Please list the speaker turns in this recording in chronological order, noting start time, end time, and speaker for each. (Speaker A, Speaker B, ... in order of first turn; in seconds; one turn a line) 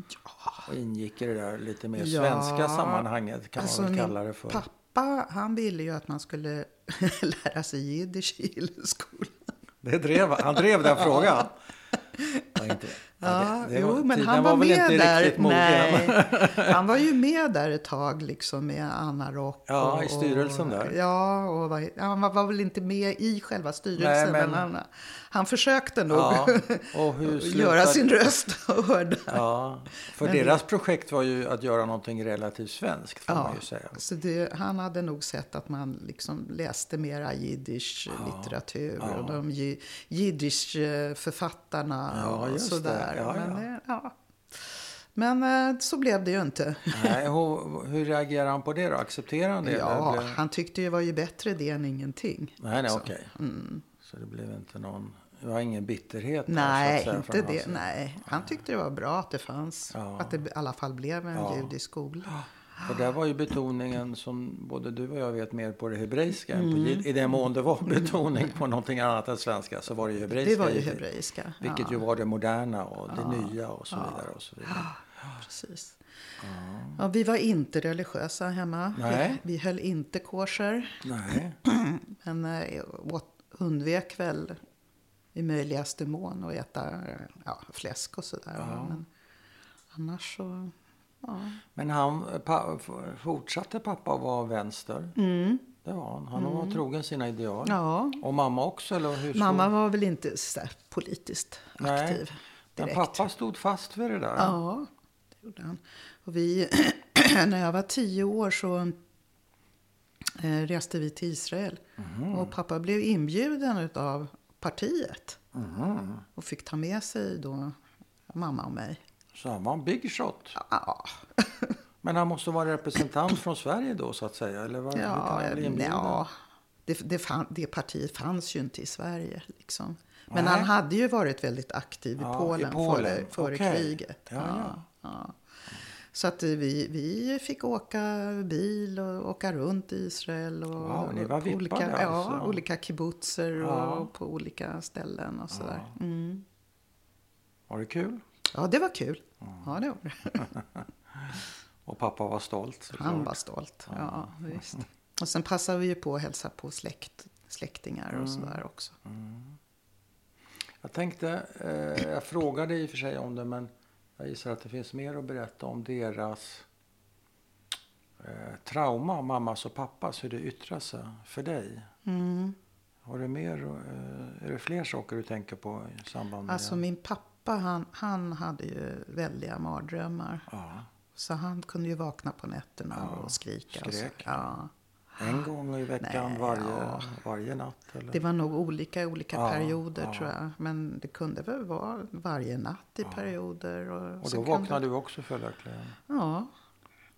Speaker A: 0.7-4.6
Speaker B: 2.0-9.3
Speaker A: 9.8-11.6
Speaker B: 10.8-11.4
Speaker B: 12.2-12.5
Speaker A: 12.5-16.8
Speaker B: 13.2-29.4
Speaker A: 19.7-21.0
Speaker A: 24.0-24.7
Speaker A: 26.1-28.3
Speaker A: 29.3-34.0
Speaker B: 30.0-30.6
Speaker B: 33.3-47.2
Speaker A: 38.1-39.4
Speaker A: 42.1-43.6
Speaker A: 46.9-50.4
Speaker B: 49.6-53.9
Speaker A: 52.6-53.3
Speaker A: 54.0-57.8
Speaker B: 56.5-62.3
Speaker A: 59.9-60.4
Speaker A: 61.3-61.7
Speaker A: 62.3-71.0
Speaker B: 66.5-67.1
Speaker B: 70.3-72.0
Speaker A: 71.6-75.4
Speaker B: 73.1-76.0
Speaker A: 76.4-77.0
Speaker B: 77.0-81.0
Speaker A: 78.9-79.4
Speaker A: 81.0-81.6
Speaker B: 81.6-84.6
Speaker B: 85.3-89.1
Speaker A: 88.5-89.0
Speaker B: 89.9-91.6
Speaker A: 91.7-95.1
Speaker B: 95.2-95.7
Speaker A: 95.8-99.7
Speaker B: 96.3-96.8
Speaker B: 97.6-98.2
Speaker B: 99.3-103.2
Speaker A: 101.8-102.2
Speaker A: 102.8-104.6
Speaker B: 104.4-109.0
Speaker B: 110.3-115.4
Speaker A: 112.0-112.5
Speaker A: 115.5-116.2
Speaker B: 116.3-117.8
Speaker B: 118.3-119.0
Speaker A: 119.3-120.6
Speaker B: 120.5-121.8
Speaker A: 122.0-126.2
Speaker B: 124.9-126.3
Speaker B: 126.8-135.4
Speaker A: 130.3-130.7
Speaker A: 132.2-134.8
Speaker B: 136.1-146.4
Speaker A: 140.8-142.6
Speaker A: 143.6-144.1
Speaker A: 145.5-145.9
Speaker A: 147.7-148.2
Speaker B: 148.5-150.6
Speaker A: 150.4-150.6
Speaker A: 151.1-153.4
Speaker B: 152.9-159.0
Speaker A: 153.9-154.8
Speaker A: 158.1-159.6
Speaker A: 160.8-166.7
Speaker A: 168.2-171.9
Speaker B: 172.0-172.6
Speaker A: 173.0-176.8
Speaker B: 176.4-180.5
Speaker A: 180.5-180.9
Speaker B: 181.1-184.7
Speaker A: 182.9-184.5
Speaker A: 185.2-188.2
Speaker B: 186.0-187.1
Speaker B: 188.1-194.8
Speaker A: 189.3-190.3
Speaker A: 193.0-193.3
Speaker A: 194.2-196.0
Speaker B: 196.1-196.5